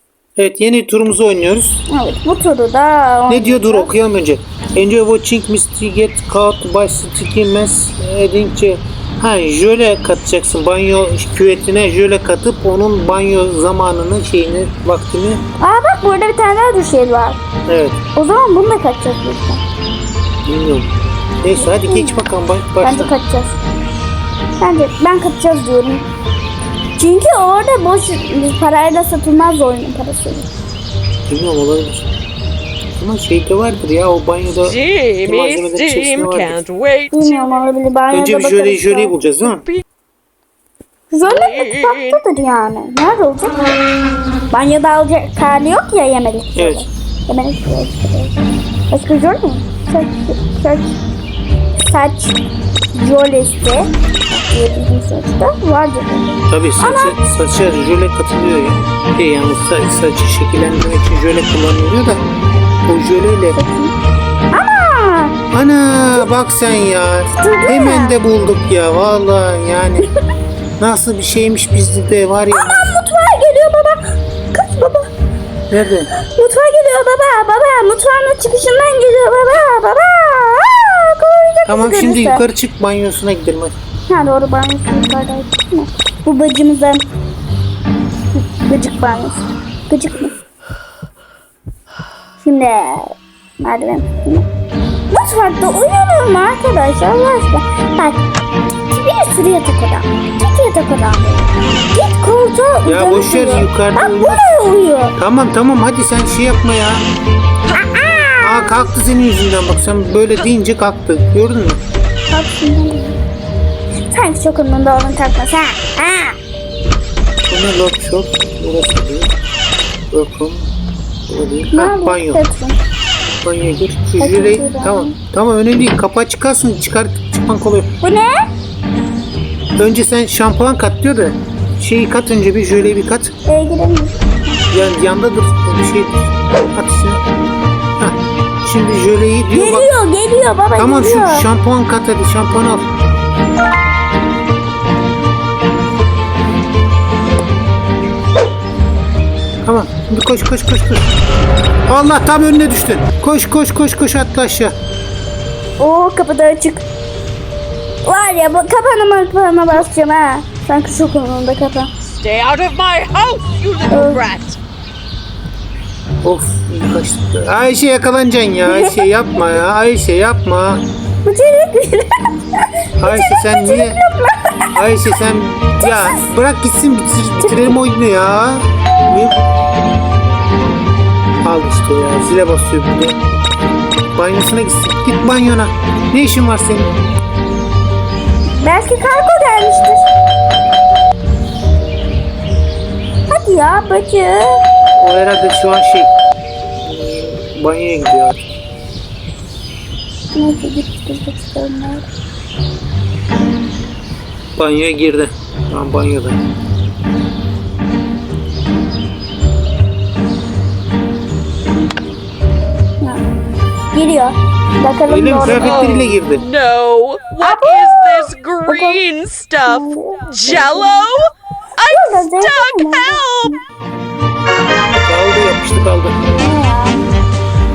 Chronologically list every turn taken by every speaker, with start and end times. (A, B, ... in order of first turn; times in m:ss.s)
0:00.4-0:01.8 A
0:01.9-0:03.9 B
0:03.3-0:15.4 A
0:15.6-0:17.4 B
0:17.7-0:18.0 A
0:18.2-0:19.6 B
0:20.4-0:20.9 A
0:21.4-0:23.1 A
0:21.5-0:22.2 B
0:22.8-0:23.6 B
0:24.6-0:26.1 B
0:27.0-0:30.5 B
0:31.3-0:32.1 A
0:33.0-0:36.6 A
0:34.5-0:37.6 C
0:37.1-0:39.2 B
0:38.1-0:39.6 A
0:39.4-0:39.8 C
0:41.1-0:43.6 B
0:41.2-0:42.2 C
0:44.5-0:50.9 B
0:46.5-0:46.8 A
0:51.8-0:52.4 B
0:53.0-0:57.2 B
0:56.5-1:02.2 A
1:02.9-1:03.6 A
1:03.5-1:03.9 B
1:04.5-1:05.3 B
1:05.5-1:10.0 A
1:07.3-1:08.2 B
1:10.8-1:12.9 A
1:12.5-1:14.0 B
1:14.5-1:15.1 B
1:15.7-1:16.1 A
1:16.1-1:22.4 B
1:21.6-1:23.7 A
1:24.1-1:27.1 B
1:28.5-1:30.3 B
1:32.4-1:34.5 B
1:35.1-1:38.2 B
1:38.9-1:45.2 B
1:42.8-1:44.5 A
1:45.2-1:47.0 A
1:47.7-1:48.7 B
1:48.4-1:51.8 A
1:52.3-1:53.2 B
1:54.1-1:56.4 B
1:57.5-1:59.3 A
2:00.1-2:00.7 A
2:01.3-2:02.4 A
2:01.7-2:02.8 B
2:03.4-2:07.9 A
2:04.2-2:05.1 B
2:08.0-2:08.4 B
2:09.8-2:13.3 A
2:13.5-2:15.0 B
2:14.7-2:17.2 A
2:18.0-2:19.9 A
2:19.5-2:21.4 B
2:20.8-2:22.9 A
2:29.6-2:31.1 A
2:31.9-2:34.7 A
2:35.8-2:36.8 B
2:38.0-2:41.9 B
2:42.0-2:44.6 C
2:43.9-2:44.2 B
2:46.2-2:50.8 A
2:48.6-2:49.1 B
2:51.2-2:54.7 B
2:53.0-2:54.0 A
2:54.7-2:59.4 A
2:55.8-2:56.2 B
2:57.4-2:57.8 B
3:01.4-3:03.2 A
3:04.1-3:06.9 A
3:08.6-3:10.1 B
3:13.3-3:14.6 B
3:14.9-3:16.1 A
3:16.8-3:18.5 A
3:20.3-3:22.1 B
3:24.6-3:26.4 A
3:33.9-3:35.8 B
3:35.1-3:36.4 A
3:35.6-3:43.5 C
3:37.4-3:39.0 B
3:39.6-3:41.1 B
3:41.8-3:43.6 B
3:45.0-3:46.1 A
3:46.4-3:47.1 B